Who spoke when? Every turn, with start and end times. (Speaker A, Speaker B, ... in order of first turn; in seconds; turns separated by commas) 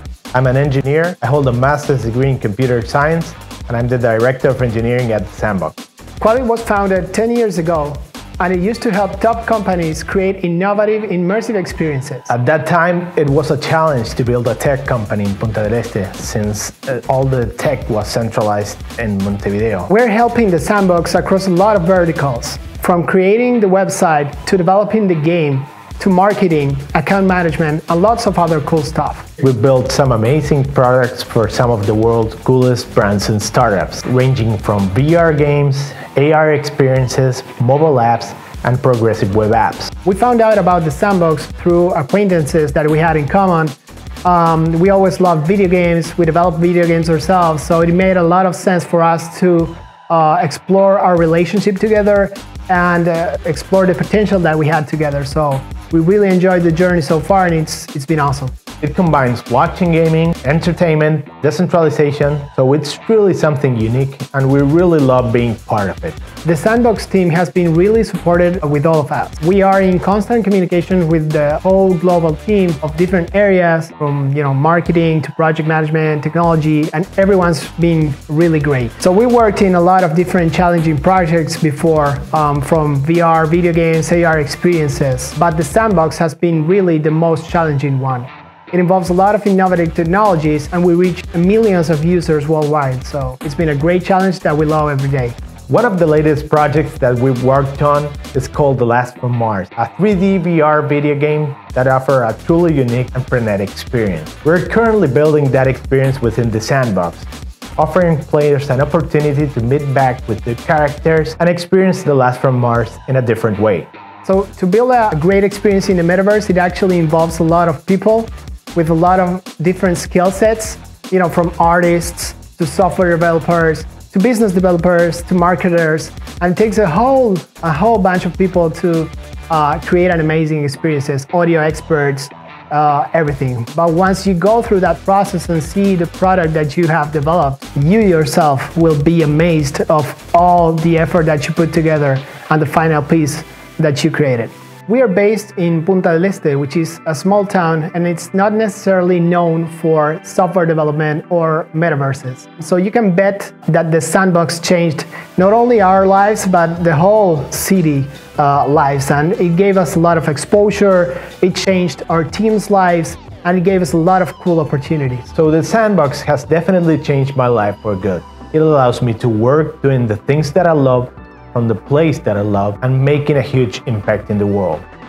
Speaker A: 0.3-5.7, Speaker B: 6.2-12.3, Speaker A: 12.3-19.9, Speaker B: 19.9-29.3, Speaker A: 29.4-39.9, Speaker B: 40.0-58.5, Speaker A: 58.8-66.2, Speaker B: 66.4-95.4, Speaker A: 95.7-113.9, Speaker B: 114.2-165.3, Speaker A: 165.3-174.8